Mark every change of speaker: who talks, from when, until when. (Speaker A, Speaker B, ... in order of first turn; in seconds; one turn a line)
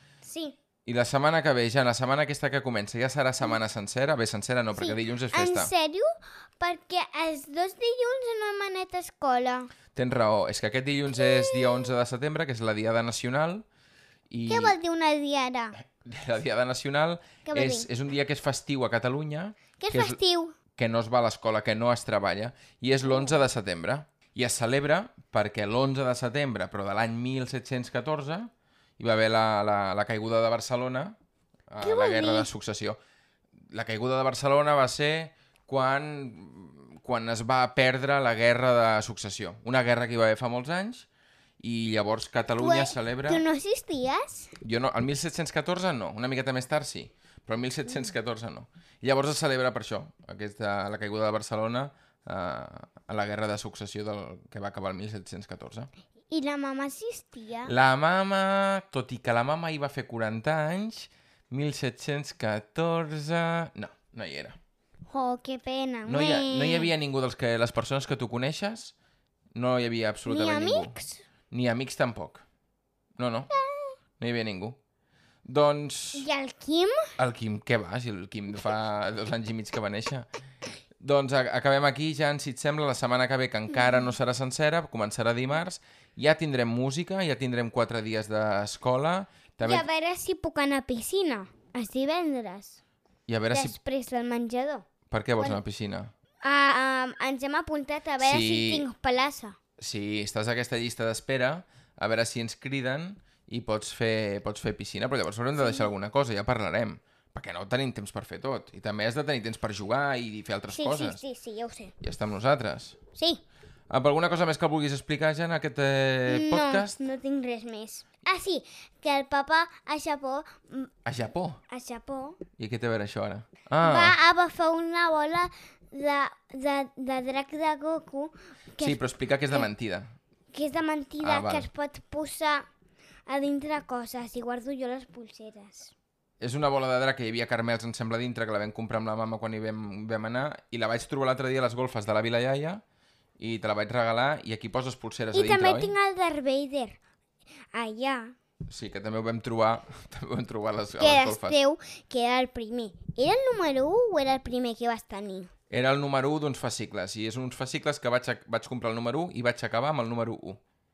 Speaker A: 0.2-0.6
Speaker B: 0.8-5.7
Speaker A: 4.7-9.7
Speaker B: 9.9-13.7
Speaker A: 11.2-11.9
Speaker B: 14.3-14.8
Speaker A: 14.5-15.8
Speaker B: 15.9-20.2
Speaker A: 17.5-17.9
Speaker A: 19.8-20.6
Speaker B: 20.8-31.2
Speaker A: 23.1-23.4
Speaker B: 31.7-33.0
Speaker A: 31.8-32.5
Speaker B: 33.7-41.1
Speaker B: 41.6-43.5
Speaker A: 42.6-44.5
Speaker B: 44.6-55.9
Speaker A: 56.3-57.7
Speaker B: 57.7-64.6
Speaker A: 65.1-66.9
Speaker B: 66.1-69.0
Speaker B: 69.5-70.9
Speaker A: 70.3-71.2
Speaker B: 71.5-72.4
Speaker B: 73.2-73.5
Speaker A: 73.5-73.9
Speaker B: 74.2-74.8
Speaker B: 75.5-76.3
Speaker A: 76.1-77.1
Speaker B: 77.2-80.3
Speaker B: 81.0-89.9
Speaker A: 83.8-84.1
Speaker A: 89.6-92.8
Speaker B: 93.3-93.8
Speaker A: 93.5-94.9
Speaker B: 95.1-96.1
Speaker A: 96.4-99.6
Speaker B: 98.2-98.9
Speaker B: 99.8-111.2
Speaker A: 105.6-105.9
Speaker A: 110.7-111.9
Speaker B: 112.0-113.0
Speaker A: 113.2-113.4
Speaker B: 113.9-117.0
Speaker A: 116.3-120.9
Speaker B: 121.0-121.6
Speaker A: 121.7-122.4
Speaker B: 122.6-124.2
Speaker A: 123.8-129.7
Speaker B: 128.8-130.2
Speaker A: 130.5-132.7
Speaker B: 131.2-131.7
Speaker A: 133.3-135.9
Speaker B: 136.4-142.8
Speaker B: 143.4-145.9
Speaker A: 145.3-147.0
Speaker A: 147.7-148.3
Speaker B: 148.7-151.6
Speaker A: 151.0-155.5
Speaker B: 155.7-160.6